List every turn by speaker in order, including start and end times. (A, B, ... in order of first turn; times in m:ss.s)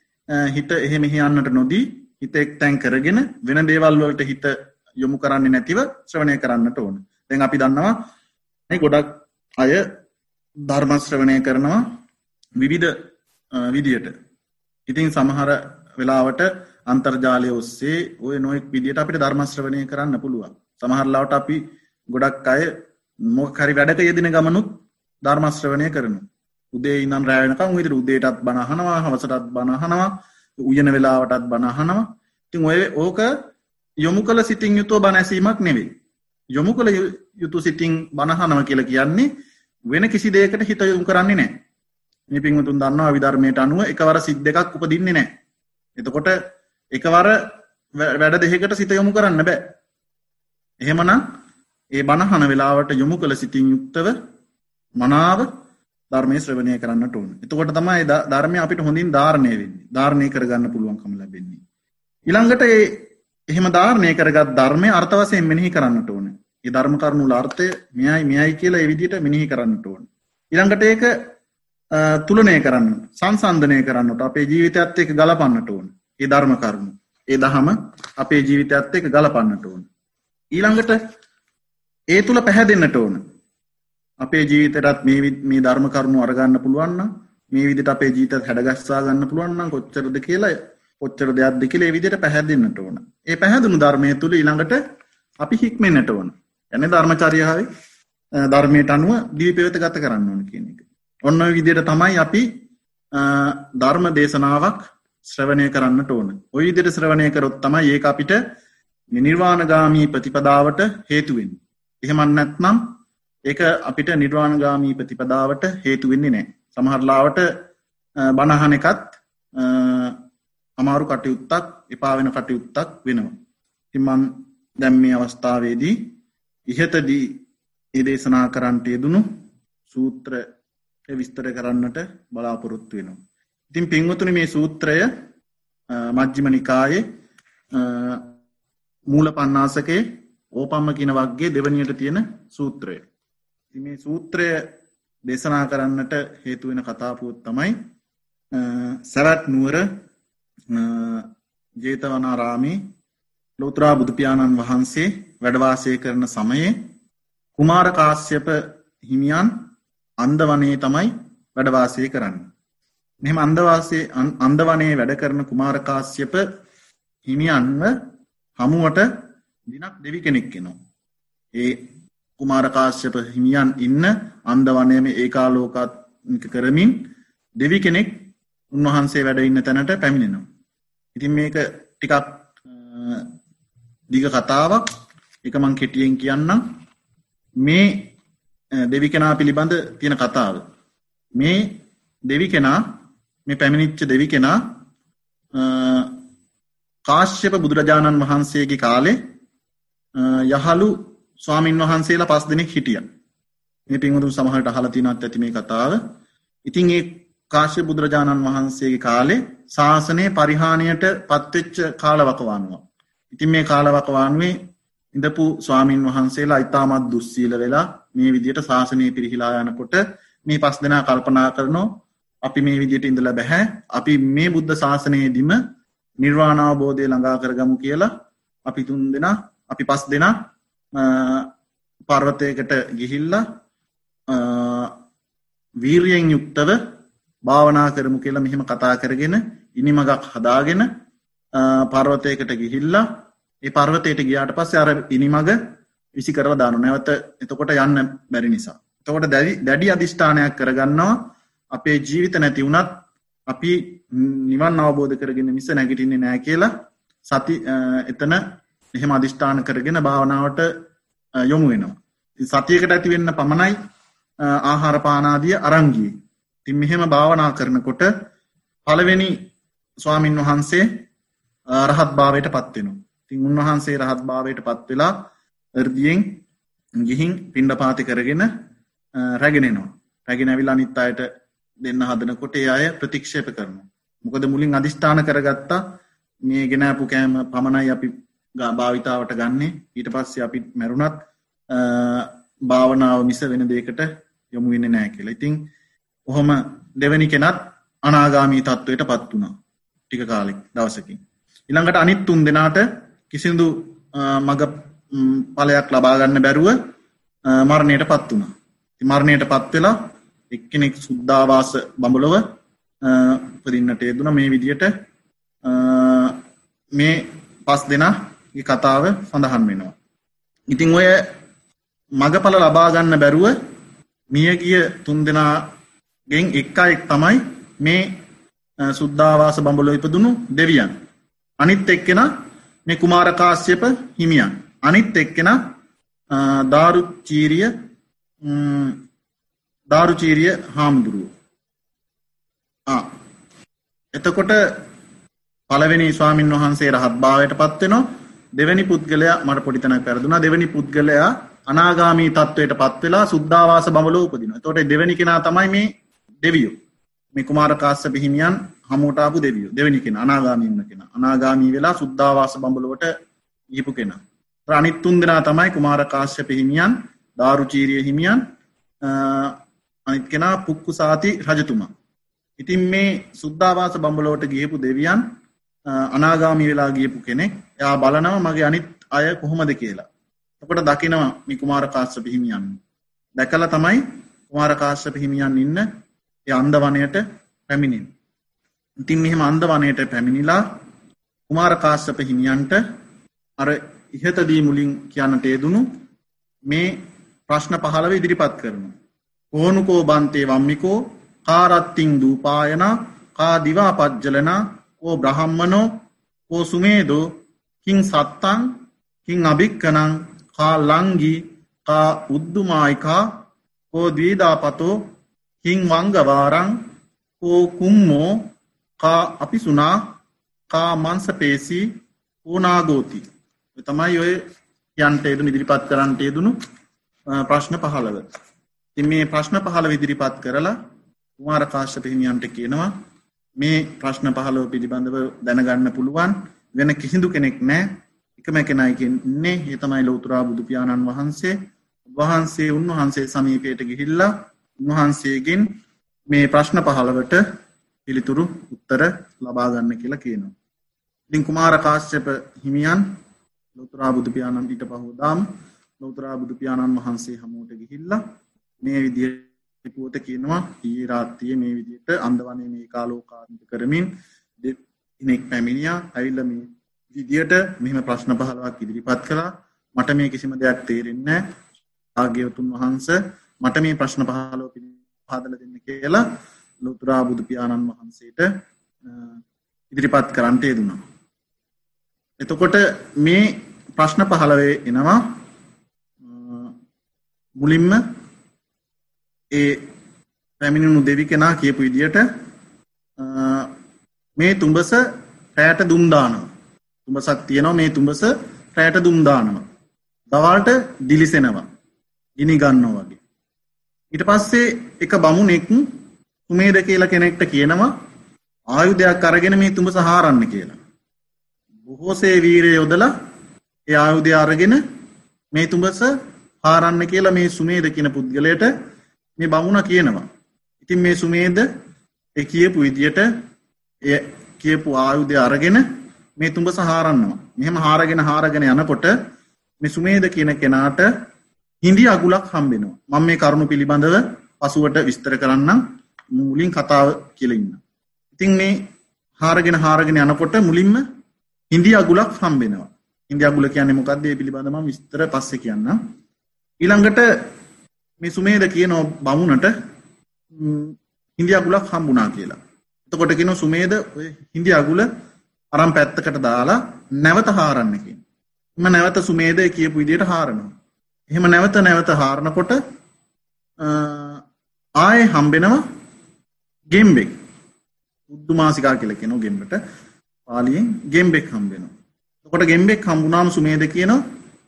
0:00.3-0:08.0 A
0:08.7-0:09.9 A
0:10.7-0:11.8 A
0:12.6-0:13.0 A
0:13.5-0:14.1 A
0:14.9-0:33.3 A
0:34.0-0:35.9 A
0:36.6-0:39.3 A
0:39.9-0:41.5 A
0:42.3-0:45.3 A
0:46.0-0:46.4 A
0:46.9-0:47.4 A
0:48.0-0:49.6 A
0:50.8-0:51.2 A
0:52.0-0:54.1 A
0:55.0-0:55.5 A
0:56.1-1:01.6 A
1:02.3-1:11.1 A
1:11.9-1:19.9 A
1:20.5-1:21.0 A
1:22.1-1:23.2 A
1:24.2-1:34.8 A
1:35.4-1:37.7 A
1:38.4-1:42.5 A
1:43.1-1:48.4 A
1:49.1-1:52.8 A
1:53.5-1:57.5 A
1:58.2-2:00.2 A
2:00.8-2:03.4 A
2:03.9-2:06.0 A
2:06.7-2:07.4 A
2:08.0-2:09.3 A
2:09.9-2:10.4 A
2:11.1-2:13.2 A
2:13.7-2:15.1 A
2:15.9-2:17.0 A
2:17.7-2:18.3 A
2:19.1-2:23.0 A
2:23.7-2:24.6 A
2:25.3-2:27.8 A
2:28.5-2:29.9 A
2:30.7-2:31.3 A
2:31.8-2:32.8 A
2:33.6-2:36.8 A
2:37.6-2:39.5 A
2:40.2-2:42.5 A
2:43.2-2:46.4 A
2:47.3-2:47.9 A
2:48.6-2:49.1 A
2:49.7-2:50.8 A
2:51.6-2:51.8 A
2:52.4-2:57.1 A
2:57.6-3:00.4 A
3:01.2-3:03.3 A
3:04.1-3:04.8 A
3:05.4-3:06.6 A
3:07.6-3:08.1 A
3:08.8-3:10.6 A
3:11.4-3:12.8 A
3:13.5-3:14.6 A
3:15.6-3:16.2 A
3:17.1-3:19.2 A
3:20.2-3:23.1 A
3:23.9-3:26.0 A
3:26.6-3:34.6 A
3:35.1-3:41.9 A
3:42.4-3:45.6 A
3:46.2-3:48.1 A
3:48.7-3:50.4 A
3:51.0-3:51.5 A
3:52.1-3:53.4 A
3:54.3-3:55.0 A
3:55.8-3:56.8 A
3:57.5-4:00.9 A
4:01.6-4:03.0 A
4:03.6-4:05.6 A
4:06.2-4:16.7 A
4:17.3-4:18.4 A
4:19.0-4:20.7 A
4:21.4-4:23.8 A
4:24.4-4:26.1 A
4:26.6-4:28.1 A
4:28.8-4:29.4 A
4:30.0-4:30.9 A
4:31.7-4:35.3 A
4:35.8-4:36.4 A
4:37.0-4:38.5 A
4:39.2-4:41.3 A
4:41.8-4:45.8 A
4:46.5-4:55.6 A
4:56.3-4:59.5 A
5:00.1-5:06.8 A
5:07.5-5:10.0 A
5:10.5-5:12.4 A
5:13.0-5:14.9 A
5:15.6-5:16.4 A
5:17.0-5:20.0 A
5:20.7-5:21.3 A
5:22.2-5:23.6 A
5:24.3-5:25.7 A
5:26.3-5:28.1 A
5:28.8-5:30.9 A
5:31.6-5:32.3 A
5:32.9-5:35.6 A
5:36.3-5:37.7 A
5:38.4-5:39.0 A
5:39.9-5:41.3 A
5:44.2-5:44.6 A
5:45.7-5:48.0 A
5:48.6-5:55.9 A
5:56.4-5:56.8 A
5:57.4-6:03.1 A
6:03.7-6:08.4 A
6:09.0-6:09.6 A
6:10.1-6:11.9 A
6:12.6-6:15.2 A
6:15.9-6:20.1 A
6:20.6-6:22.8 A
6:23.4-6:25.8 A
6:26.5-6:28.1 A
6:29.0-6:30.6 A
6:31.5-6:32.8 A
6:33.6-6:35.9 A
6:36.7-6:38.9 A
6:39.5-6:45.9 A
6:46.5-6:47.3 A
6:47.8-6:48.7 A
6:49.3-6:53.3 A
6:53.9-6:55.0 A
6:55.6-6:56.8 A
6:57.4-7:00.1 A
7:00.7-7:01.9 A
7:02.4-7:03.2 A
7:03.8-7:04.4 A
7:05.0-7:06.6 A
7:07.4-7:08.3 A
7:09.0-7:10.8 A
7:11.4-7:12.9 A
7:13.6-7:21.6 A
7:22.1-7:25.7 A
7:26.3-7:27.4 A
7:28.0-7:30.5 A
7:31.3-7:33.1 A
7:33.8-7:38.2 A
7:38.8-7:51.4 A
7:52.2-7:56.2 A
7:56.8-7:58.5 A
7:59.9-8:01.0 A
8:02.4-8:05.3 A
8:06.2-8:06.7 A
8:07.6-8:08.0 A
8:09.5-8:09.8 A
8:10.6-8:12.2 A
8:13.2-8:13.7 A
8:14.4-8:15.0 A
8:15.6-8:16.5 A
8:17.0-8:19.6 A
8:20.3-8:21.7 A
8:22.4-8:23.2 A
8:24.1-8:25.8 A
8:26.5-8:27.9 A
8:28.7-8:30.8 A
8:31.9-8:33.1 A
8:33.9-8:34.8 A
8:35.5-8:38.7 A
8:39.4-8:40.3 A
8:40.8-8:41.7 A
8:42.4-8:43.3 A
8:44.0-8:45.8 A
8:46.4-8:49.2 A
8:49.8-8:51.1 A
8:51.8-8:55.8 A
8:56.4-8:57.8 A
8:58.4-8:58.8 A
8:59.4-9:01.0 A
9:01.7-9:06.0 A
9:06.8-9:07.3 A
9:08.2-9:09.7 A
9:10.5-9:15.1 A
9:15.7-9:18.2 A
9:18.8-9:20.7 A
9:21.3-9:22.8 A
9:23.8-9:24.4 A
9:25.0-9:25.8 A
9:26.9-9:27.3 A
9:28.3-9:29.8 A
9:30.5-9:31.9 A
9:32.4-9:34.2 A